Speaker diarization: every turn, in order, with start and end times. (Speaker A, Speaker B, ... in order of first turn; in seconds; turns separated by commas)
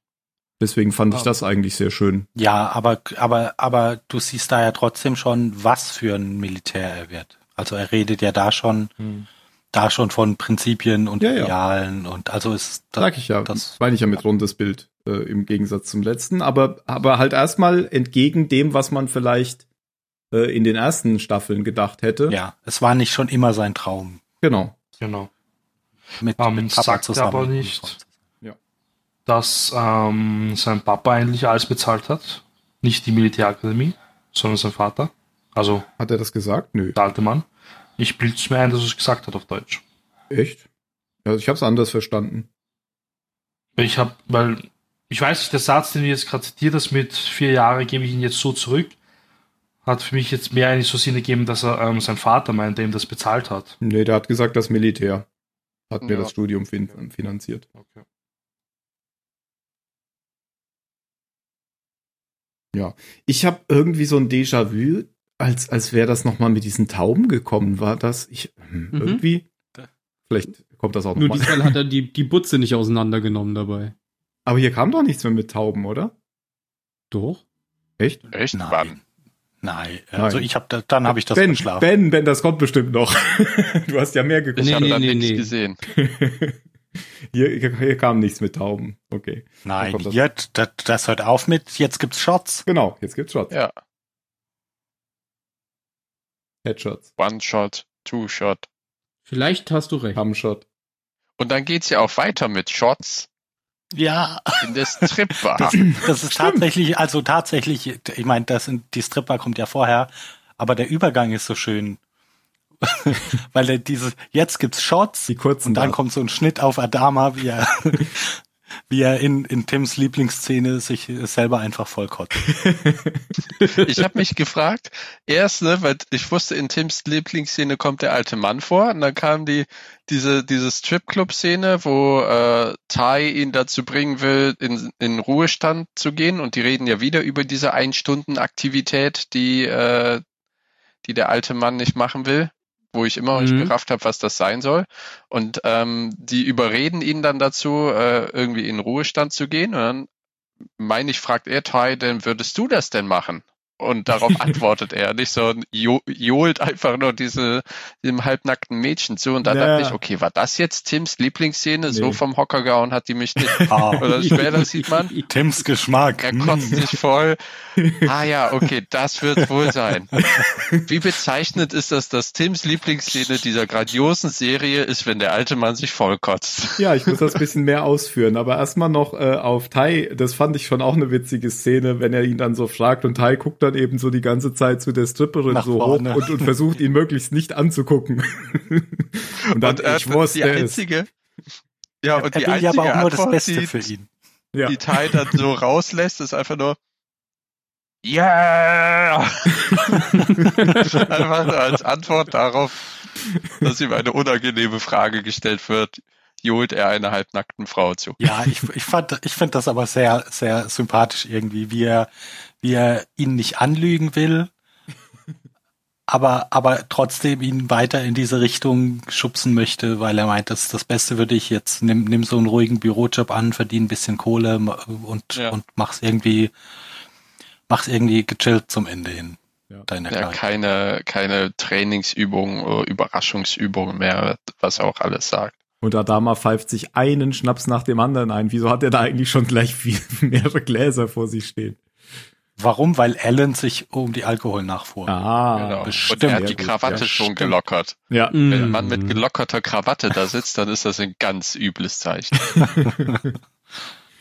Speaker A: 0.6-2.3, Speaker B: 2.4-8.9, Speaker C: 9.0-9.3, Speaker B: 9.7-13.8, Speaker A: 11.2-11.6, Speaker A: 13.0-19.6, Speaker A: 20.3-22.4, Speaker B: 22.3-24.2, Speaker A: 24.4-24.8, Speaker C: 25.0-25.3, Speaker B: 26.2-28.1, Speaker C: 26.4-27.9, Speaker C: 29.3-35.9, Speaker A: 36.0-37.0, Speaker C: 37.0-37.5, Speaker C: 38.0-39.8, Speaker A: 40.3-40.6, Speaker A: 41.2-42.5, Speaker C: 43.8-49.0, Speaker C: 49.8-53.8, Speaker A: 53.8-55.3, Speaker A: 55.9-57.7, Speaker D: 56.0-56.3, Speaker C: 57.8-58.0, Speaker A: 62.7-69.5, Speaker E: 68.9-69.2, Speaker A: 70.3-71.8, Speaker E: 71.2-73.9, Speaker A: 74.5-76.1, Speaker E: 77.1-77.4, Speaker A: 78.0-78.3, Speaker D: 78.3-79.0, Speaker B: 78.5-79.0, Speaker B: 79.6-81.9, Speaker A: 80.2-80.5, Speaker A: 81.1-85.0, Speaker E: 84.6-85.5, Speaker D: 84.6-85.8, Speaker A: 85.9-86.6, Speaker A: 87.3-90.2, Speaker B: 89.7-92.7, Speaker A: 92.7-93.5, Speaker A: 96.6-97.1, Speaker D: 97.2-98.7, Speaker E: 99.3-100.2, Speaker A: 100.2-100.7, Speaker D: 101.4-103.3, Speaker B: 103.9-112.0, Speaker D: 104.6-105.9, Speaker A: 106.3-106.6, Speaker B: 112.8-118.4, Speaker A: 115.3-116.0, Speaker B: 118.9-122.5, Speaker A: 122.5-123.2, Speaker D: 123.7-140.2, Speaker D: 141.0-150.1, Speaker E: 143.3-143.7, Speaker D: 150.8-165.1, Speaker A: 159.4-160.0, Speaker A: 161.9-162.2, Speaker A: 163.4-163.9, Speaker B: 163.7-164.3, Speaker E: 164.1-165.3, Speaker B: 165.3-166.8, Speaker D: 166.2-167.4, Speaker A: 167.8-168.1, Speaker D: 168.0-170.2, Speaker B: 170.2-170.4, Speaker A: 170.4-170.8, Speaker D: 170.8-177.3, Speaker A: 176.8-190.9, Speaker B: 185.5-186.5, Speaker D: 189.5-191.1, Speaker D: 192.0-193.9, Speaker B: 192.2-194.1, Speaker A: 194.5-195.4, Speaker D: 194.7-196.8, Speaker D: 198.0-202.9, Speaker D: 203.6-208.2, Speaker B: 208.2-212.1, Speaker B: 212.6-214.5, Speaker B: 216.1-226.5, Speaker B: 227.7-230.4, Speaker D: 230.1-235.6, Speaker A: 235.8-241.8, Speaker B: 242.6-245.2, Speaker A: 245.1-247.1, Speaker D: 245.6-248.0, Speaker B: 245.8-247.6, Speaker A: 248.1-248.8, Speaker E: 248.3-249.2, Speaker D: 248.5-252.7, Speaker A: 252.6-253.1